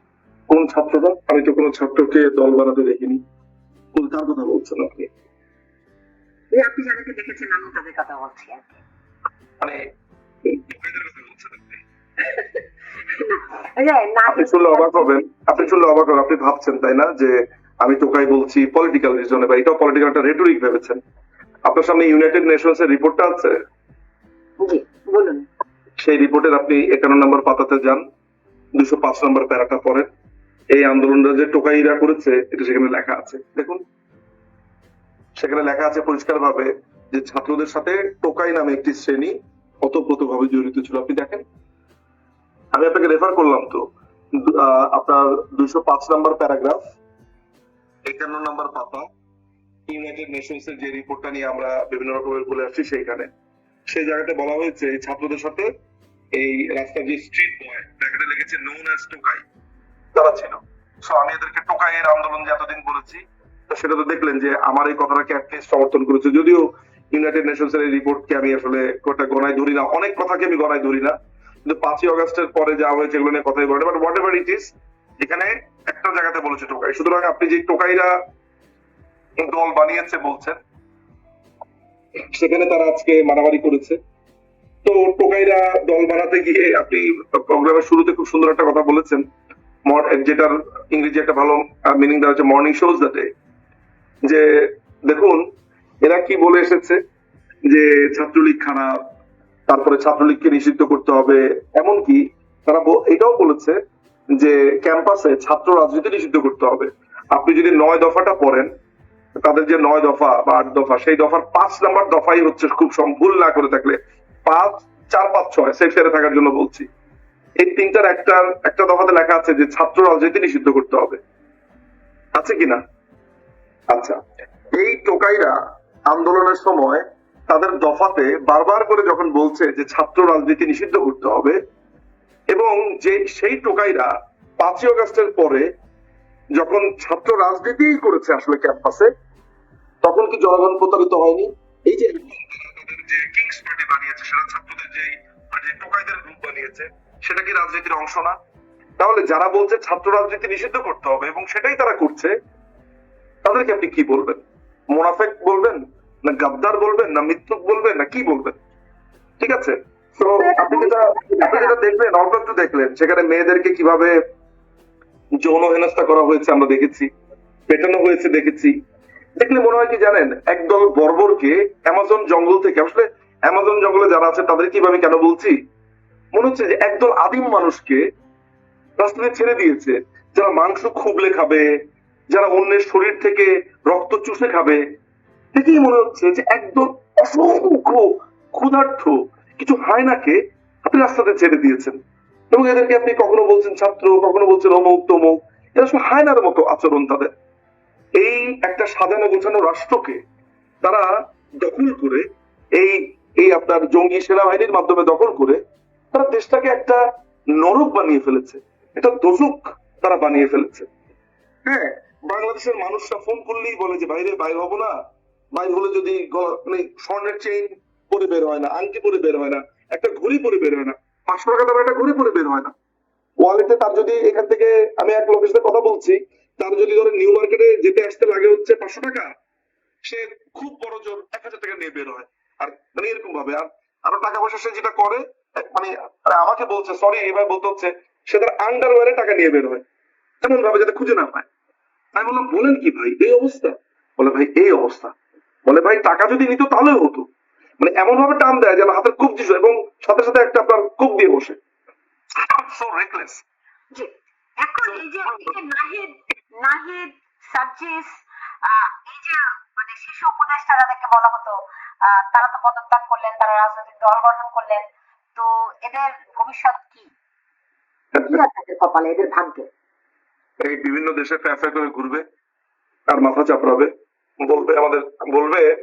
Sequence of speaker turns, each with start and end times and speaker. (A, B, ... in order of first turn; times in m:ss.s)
0:00.5-0:03.2 A
0:03.9-0:05.1 A
0:06.5-0:08.8 B
0:10.5-0:11.8 A
0:12.2-0:15.8 B
0:14.3-0:21.0 A
0:21.7-0:23.6 A
0:24.6-0:25.5 B
0:26.0-0:28.0 A
0:28.8-0:30.1 A
0:30.7-0:33.8 A
0:35.4-0:41.4 A
0:42.7-0:46.8 A
0:48.1-0:49.0 A
0:49.9-0:53.3 A
0:53.9-0:55.7 A
0:56.3-0:59.4 A
1:00.1-1:11.2 A
1:11.7-1:18.1 A
1:19.4-1:20.6 A
1:22.3-1:24.0 A
1:24.8-1:29.2 A
1:29.9-1:33.3 A
1:34.3-1:35.4 A
1:36.0-1:37.0 A
1:37.7-1:39.0 A
1:39.7-1:43.8 A
1:44.4-1:48.7 A
1:49.4-1:56.9 A
1:57.6-2:01.2 A
2:02.4-2:02.8 A
2:03.9-2:04.2 A
2:04.7-2:05.5 A
2:06.1-2:11.6 A
2:12.5-2:15.7 A
2:16.6-2:19.1 A
2:20.0-2:28.4 A
2:29.0-2:32.3 A
2:33.4-2:38.6 A
2:39.4-2:44.1 A
2:40.4-2:41.7 B
2:45.4-2:47.1 A
2:47.7-2:48.7 A
2:49.4-2:55.6 A
2:56.4-2:58.0 A
2:59.0-3:01.6 A
3:02.3-3:04.8 A
3:05.6-3:12.0 A
3:12.5-3:17.3 A
3:18.2-3:20.2 A
3:20.8-3:21.1 A
3:21.6-3:22.2 A
3:22.8-3:25.6 A
3:26.1-3:27.0 A
3:27.6-3:30.9 A
3:31.6-3:34.9 A
3:35.5-3:42.7 A
3:43.4-3:49.3 A
3:50.0-3:59.8 A
4:00.4-4:01.5 A
4:02.2-4:05.1 A
4:05.7-4:07.2 A
4:07.8-4:11.6 A
4:12.4-4:13.4 A
4:13.9-4:24.8 B
4:14.9-4:15.5 A
4:25.4-4:27.1 B
4:28.2-4:28.4 A
4:28.3-4:29.7 B
4:30.6-4:32.2 A
4:33.1-4:33.9 A
4:34.4-4:35.7 A